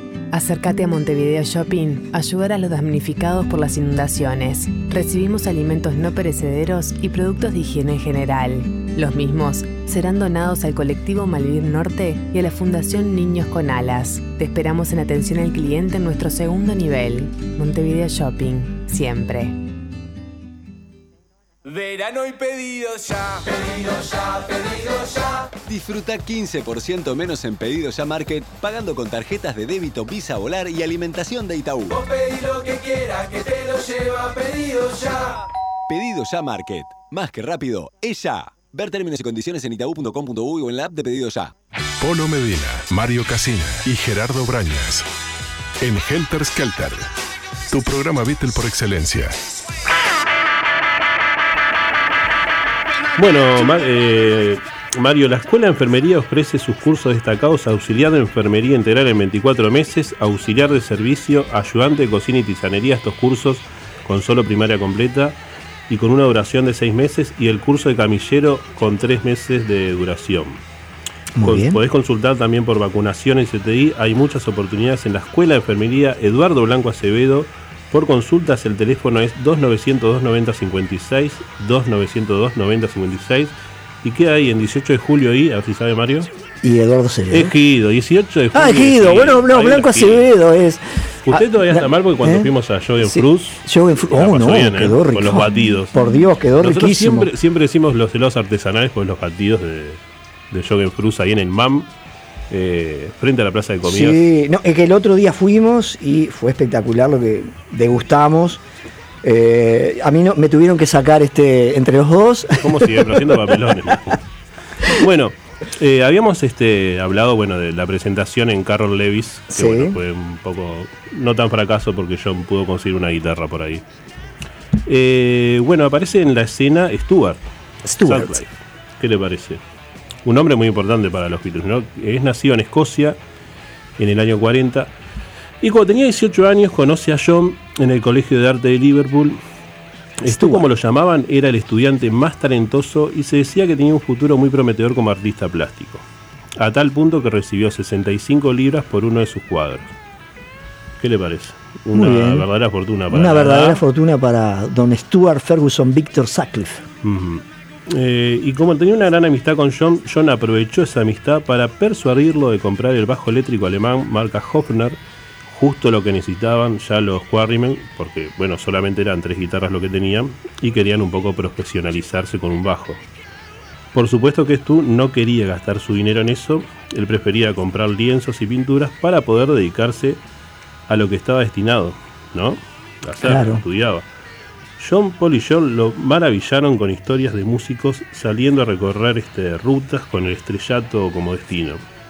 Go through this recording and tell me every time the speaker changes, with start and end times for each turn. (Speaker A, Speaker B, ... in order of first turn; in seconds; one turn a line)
Speaker A: 0.3-19.6
Speaker B: 21.7-25.4
Speaker C: 25.7-32.0
Speaker B: 31.9-35.3
Speaker C: 35.9-41.5
Speaker D: 42.0-45.1
Speaker D: 45.8-47.1
Speaker D: 47.7-49.4
Speaker E: 53.2-65.4
Speaker E: 65.9-70.6
Speaker F: 71.3-71.8
Speaker E: 71.4-86.3
Speaker F: 86.6-87.5
Speaker E: 87.3-90.3
Speaker F: 88.5-92.5
Speaker E: 91.3-96.0
Speaker F: 93.0-97.3
Speaker E: 96.6-100.0
Speaker E: 100.5-101.9
Speaker E: 102.5-104.2
Speaker F: 103.8-108.6
Speaker F: 109.2-113.9
Speaker E: 112.6-114.2
Speaker E: 114.9-123.8
Speaker F: 119.5-120.0
Speaker E: 124.9-127.4
Speaker F: 127.8-128.4
Speaker E: 128.0-129.6
Speaker E: 130.2-133.2
Speaker E: 134.0-134.9
Speaker E: 135.6-139.4
Speaker E: 140.2-146.1
Speaker F: 140.2-140.7
Speaker E: 146.6-149.9
Speaker E: 151.0-153.8
Speaker F: 151.9-152.5
Speaker F: 153.1-156.9
Speaker E: 157.0-173.0
Speaker E: 173.9-180.2
Speaker E: 180.9-184.1
Speaker F: 183.2-183.6
Speaker E: 184.8-191.8